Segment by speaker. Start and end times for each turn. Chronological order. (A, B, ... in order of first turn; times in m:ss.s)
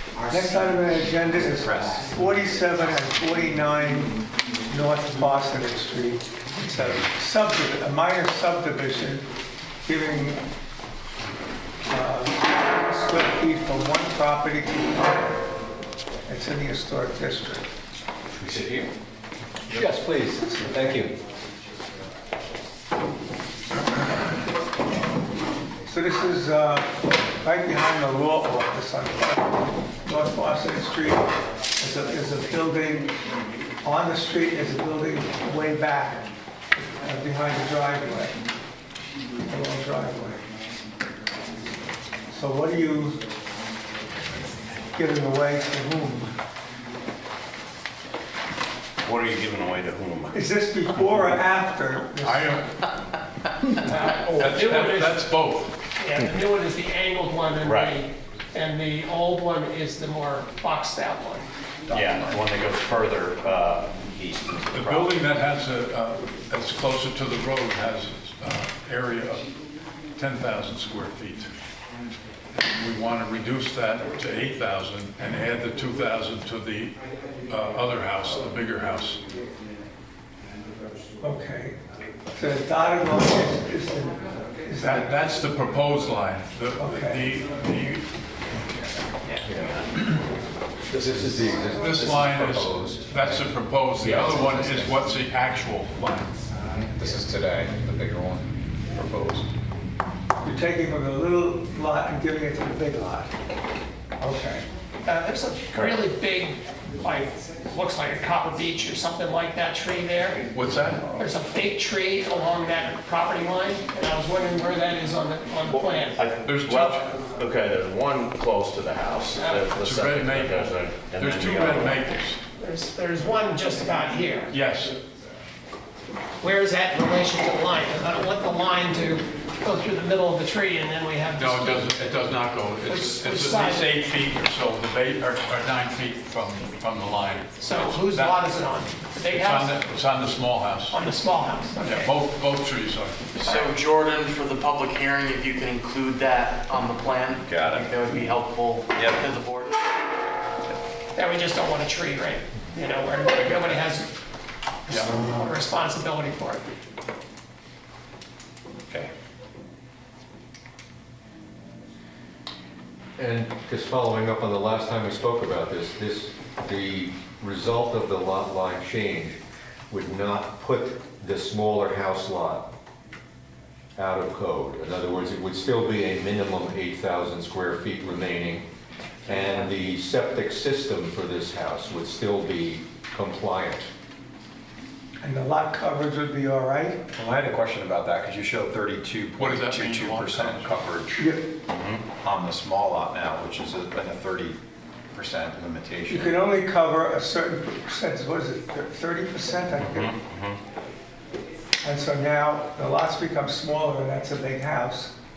0:00.3-0:09.3 A
0:01.5-0:02.1 B
0:09.8-0:10.4 A
0:11.8-0:15.4 A
0:16.2-0:17.7 A
0:18.4-0:18.9 C
0:19.7-0:21.2 C
0:20.4-0:20.6 A
0:25.8-0:33.2 A
0:33.8-0:36.3 A
0:37.0-0:38.4 A
0:39.4-0:40.4 A
0:42.3-0:43.2 A
0:44.9-0:46.3 A
0:49.0-0:50.4 D
0:50.3-0:52.6 A
0:52.2-0:52.7 E
0:53.7-0:55.2 F
0:54.3-0:55.7 E
0:56.0-1:01.5 F
0:57.6-0:57.9 D
1:01.9-1:02.4 B
1:01.9-1:05.2 D
1:04.7-1:09.5 E
1:10.2-1:11.5 E
1:12.5-1:19.2 E
1:21.2-1:21.8 A
1:22.3-1:25.2 A
1:24.8-1:28.0 E
1:26.8-1:27.2 A
1:29.3-1:29.8 D
1:29.4-1:29.8 C
1:30.9-1:32.9 C
1:31.1-1:31.4 B
1:31.7-1:36.3 E
1:32.5-1:32.9 B
1:34.0-1:34.5 B
1:36.9-1:39.5 B
1:40.4-1:43.3 A
1:44.2-1:44.6 A
1:45.0-1:50.4 F
1:45.7-1:46.0 D
1:50.5-1:51.1 E
1:51.2-1:56.2 F
1:55.7-2:02.0 D
1:56.4-1:57.0 E
1:59.7-2:02.4 E
2:02.6-2:04.5 F
2:04.5-2:05.0 E
2:06.4-2:11.9 F
2:11.4-2:18.4 E
2:12.8-2:13.9 F
2:17.6-2:19.8 F
2:19.3-2:21.0 E
2:20.9-2:22.1 F
2:21.8-2:23.4 E
2:23.4-2:29.7 G
2:23.4-2:23.7 D
2:27.4-2:27.9 D
2:29.0-2:29.2 D
2:31.1-2:34.1 F
2:34.9-2:36.7 F
2:43.2-2:49.4 C
2:49.9-2:52.7 C
2:54.0-2:58.7 C
2:59.2-3:03.9 C
3:05.2-3:07.1 A
3:07.1-3:11.2 B
3:09.4-3:10.8 E
3:11.2-3:11.5 A
3:11.7-3:12.0 D
3:12.2-3:14.6 B
3:15.1-3:16.3 B
3:16.1-3:20.1 A
3:19.8-3:20.6 D
3:21.8-3:25.1 A